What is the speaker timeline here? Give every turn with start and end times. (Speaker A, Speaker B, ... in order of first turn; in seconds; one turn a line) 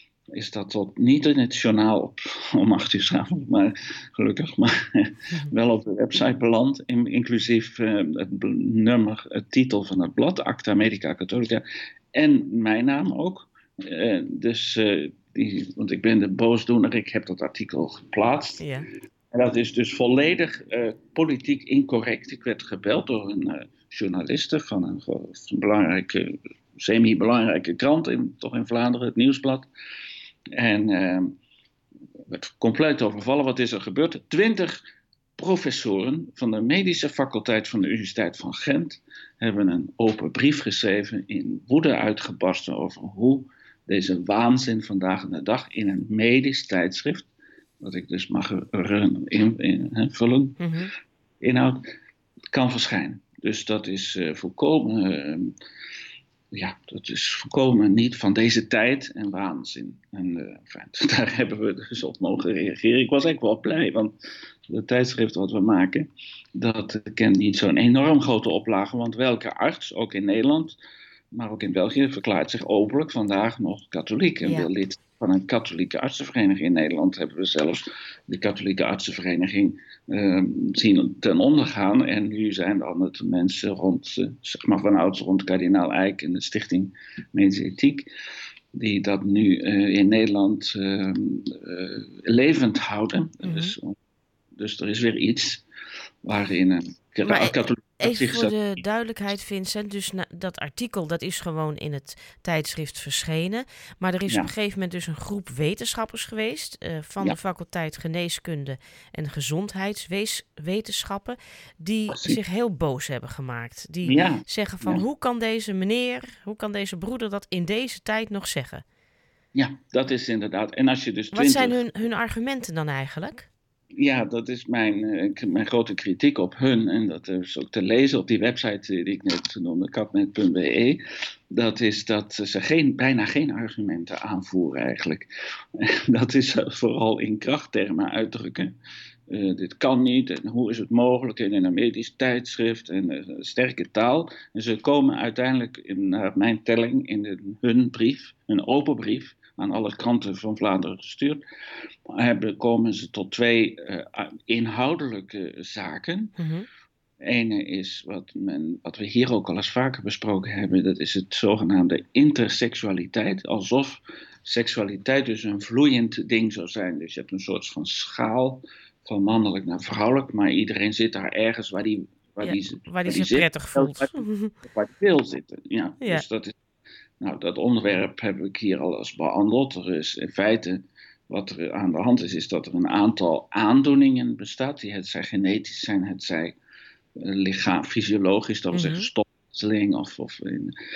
Speaker A: 0.3-18.7
Speaker B: 18.6-18.9
Speaker A: 19.3-29.7
Speaker A: 30.6-31.4
Speaker A: 32.3-34.8
Speaker A: 35.4-47.3
Speaker A: 47.8-50.6
Speaker B: 50.6-50.9
Speaker A: 51.4-51.8
Speaker A: 52.5-55.5
Speaker A: 56.5-64.1
Speaker A: 64.7-70.8
Speaker A: 71.3-88.1
Speaker B: 74.4-74.7
Speaker A: 88.8-94.0
Speaker B: 93.4-93.8
Speaker A: 94.6-95.6
Speaker A: 96.2-98.5
Speaker B: 97.2-118.8
Speaker A: 112.1-112.4
Speaker A: 114.0-115.0
Speaker A: 119.5-121.8
Speaker B: 121.3-123.5
Speaker A: 124.0-131.0
Speaker A: 131.5-138.8
Speaker A: 139.3-151.4
Speaker A: 152.1-156.4
Speaker B: 156.4-156.7
Speaker A: 157.2-176.6
Speaker B: 172.4-174.5
Speaker A: 177.2-186.6
Speaker A: 187.2-190.8
Speaker B: 188.7-189.1